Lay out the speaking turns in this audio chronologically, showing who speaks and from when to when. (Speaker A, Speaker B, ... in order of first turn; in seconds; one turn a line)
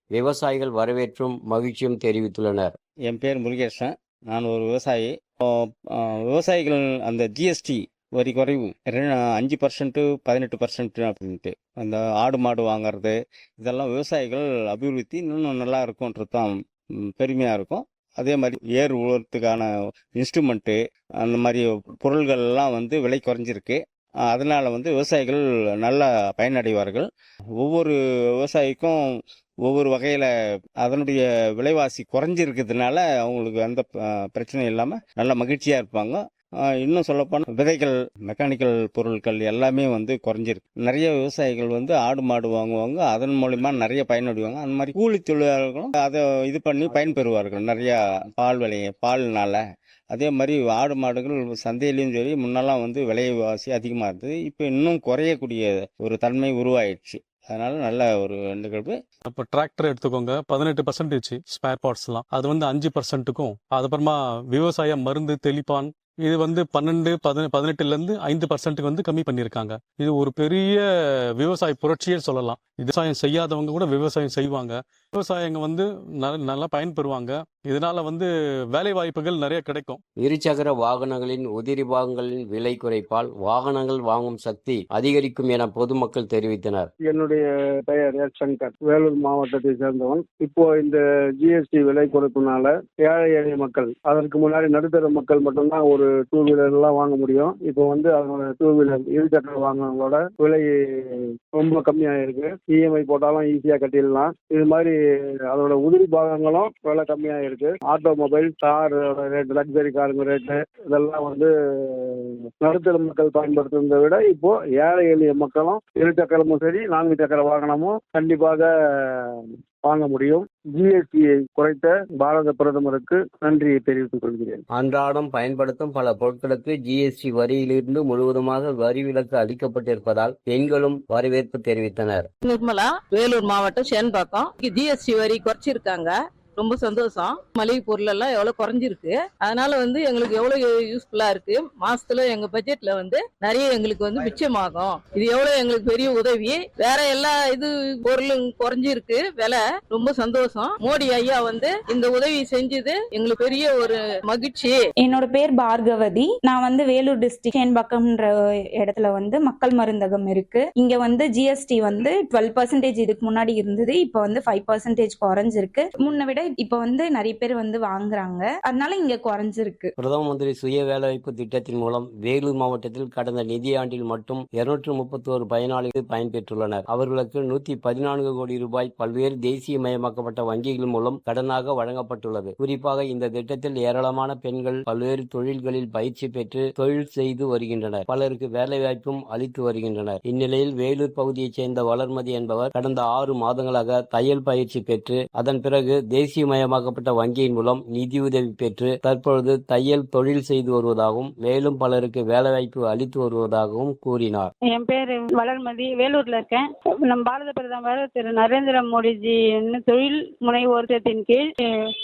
Speaker A: 0.1-2.7
Speaker B: 3.1-5.4
Speaker B: 6.0-16.5
Speaker B: 17.2-27.1
Speaker B: 27.6-29.0
Speaker B: 29.6-30.3
Speaker B: 30.8-49.6
Speaker B: 50.1-59.0
Speaker C: 59.3-70.8
Speaker C: 71.4-80.0
Speaker A: 80.2-86.9
Speaker D: 87.0-105.0
Speaker D: 105.5-119.3
Speaker D: 119.8-124.6
Speaker A: 124.7-132.3
Speaker E: 132.4-154.8
Speaker F: 155.0-169.9
Speaker A: 170.0-204.5
Speaker G: 204.7-211.5